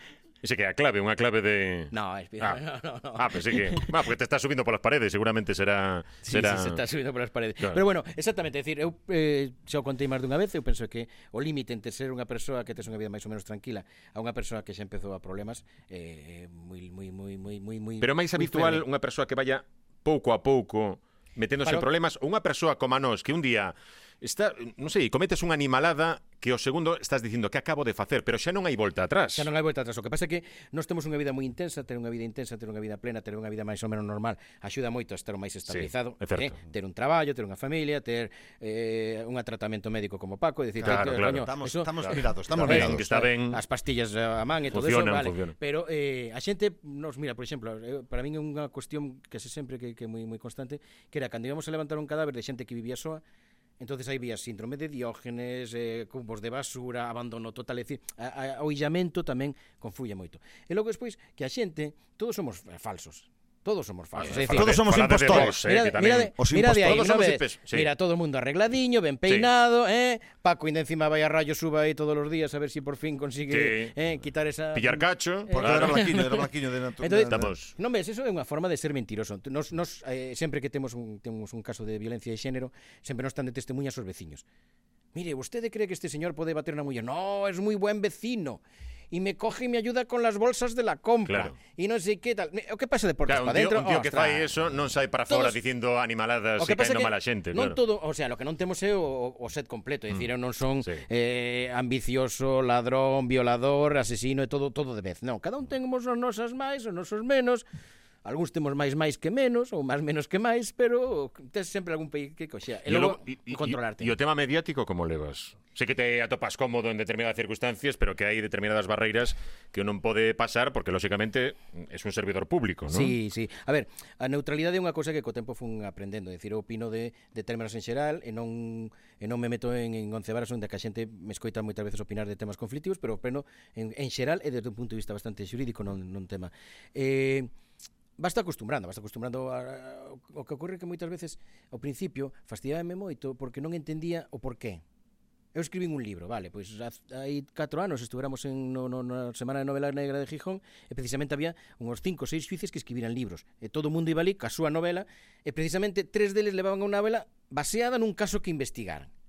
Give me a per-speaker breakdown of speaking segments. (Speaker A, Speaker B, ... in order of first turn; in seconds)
Speaker A: 0.4-2.6, 3.1-6.8, 18.0-29.5, 35.7-36.5, 40.8-41.5, 42.0-43.6, 44.7-45.5, 64.2-67.9, 73.5-73.9, 74.7-76.0, 77.3-77.7, 91.3-91.5, 93.3-97.8, 112.8-123.1
Speaker B: 1.9-3.9, 6.2-18.8, 29.3-53.2, 53.8-76.5, 77.0-84.4, 85.1-88.6, 89.1-94.5, 95.3-95.6, 96.6-107.6, 108.2-114.1, 122.9-137.5, 138.2-144.8, 145.5-159.1
Speaker C: 40.8-43.0, 64.4-65.6, 66.3-67.0, 75.5-77.5